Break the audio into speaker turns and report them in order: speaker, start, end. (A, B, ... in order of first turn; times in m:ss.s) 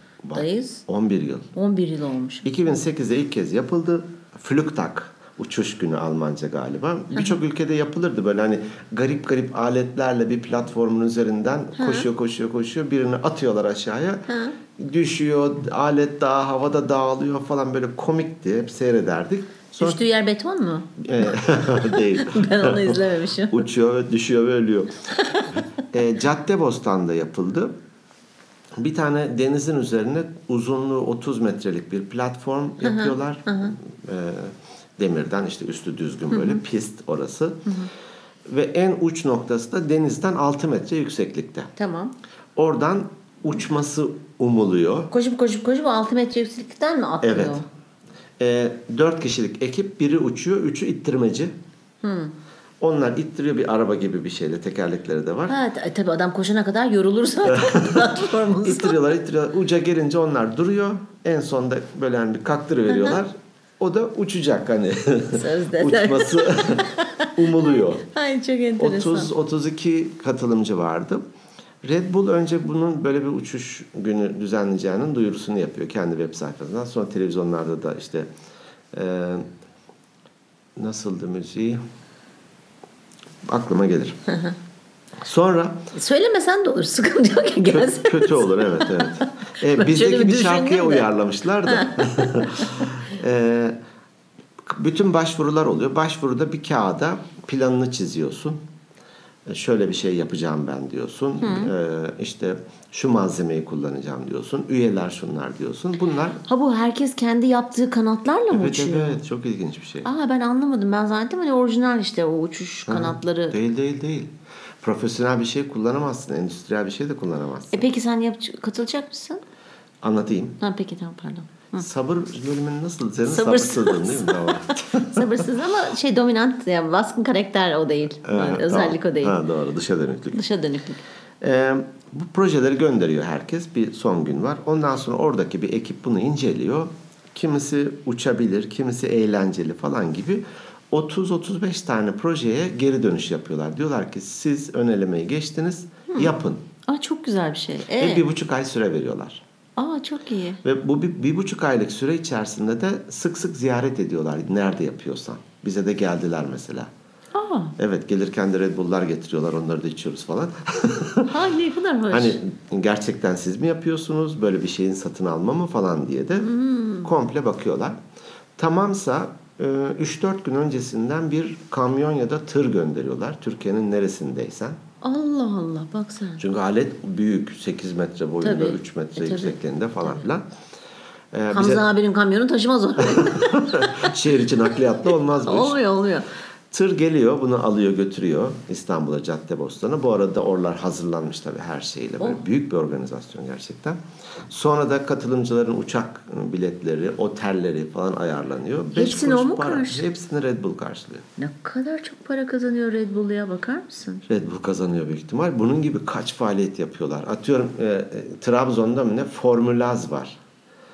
0:00.2-0:01.5 A
0:00.3-0:00.8 B
0:01.5-0:02.6 B
0:02.4-0:20.0 A
0:07.1-0:07.4 B
0:11.8-0:12.1 B
0:14.3-0:14.6 B
0:19.8-0:23.7 B
0:21.0-0:25.0 A
0:25.1-0:25.6 B
0:25.9-0:27.7 A
0:28.8-0:37.7 A
0:32.8-0:33.7 B
0:36.3-0:36.6 B
0:38.5-0:41.7 A
0:41.8-0:42.1 B
0:42.6-0:45.1 A
0:45.1-0:47.6 B
0:47.2-0:47.6 A
0:48.4-0:51.5 A
0:52.0-0:52.3 B
0:52.8-0:55.6 A
0:55.5-0:59.0 B
0:57.6-1:08.1 A
1:02.9-1:03.2 B
1:05.3-1:09.3 B
1:08.8-1:11.2 A
1:11.8-1:18.3 A
1:18.9-1:19.5 A
1:20.8-1:21.8 A
1:23.4-1:24.2 A
1:25.2-1:25.9 A
1:25.9-1:31.1 B
1:27.7-1:33.8 A
1:31.6-1:32.9 B
1:34.6-1:38.6 A
1:39.4-1:46.4 A
1:41.4-1:41.7 B
1:46.4-1:49.2 B
1:48.5-1:50.1 A
1:50.0-1:53.6 B
1:52.9-1:57.9 A
1:57.7-1:59.4 B
2:00.0-2:00.6 A
2:00.6-2:01.9 B
2:01.8-2:05.3 A
2:03.3-2:09.4 B
2:08.2-2:10.4 A
2:10.3-2:11.0 B
2:11.4-2:26.6 A
2:26.9-2:28.2 B
2:28.0-2:29.4 A
2:29.8-2:30.6 B
2:30.6-2:36.9 A
2:37.3-2:37.7 B
2:37.8-2:41.3 A
2:41.3-2:42.4 B
2:42.1-2:46.5 A
2:46.4-2:47.1 B
2:47.0-2:48.0 A
2:48.6-2:54.8 A
2:55.0-2:56.4 B
2:56.4-3:00.5 A
2:58.4-3:00.2 B
3:01.3-3:01.8 A
3:01.5-3:06.3 B
3:03.0-3:05.8 A
3:06.7-3:21.2 A
3:18.9-3:20.0 B
3:21.4-3:24.2 B
3:24.3-3:30.4 A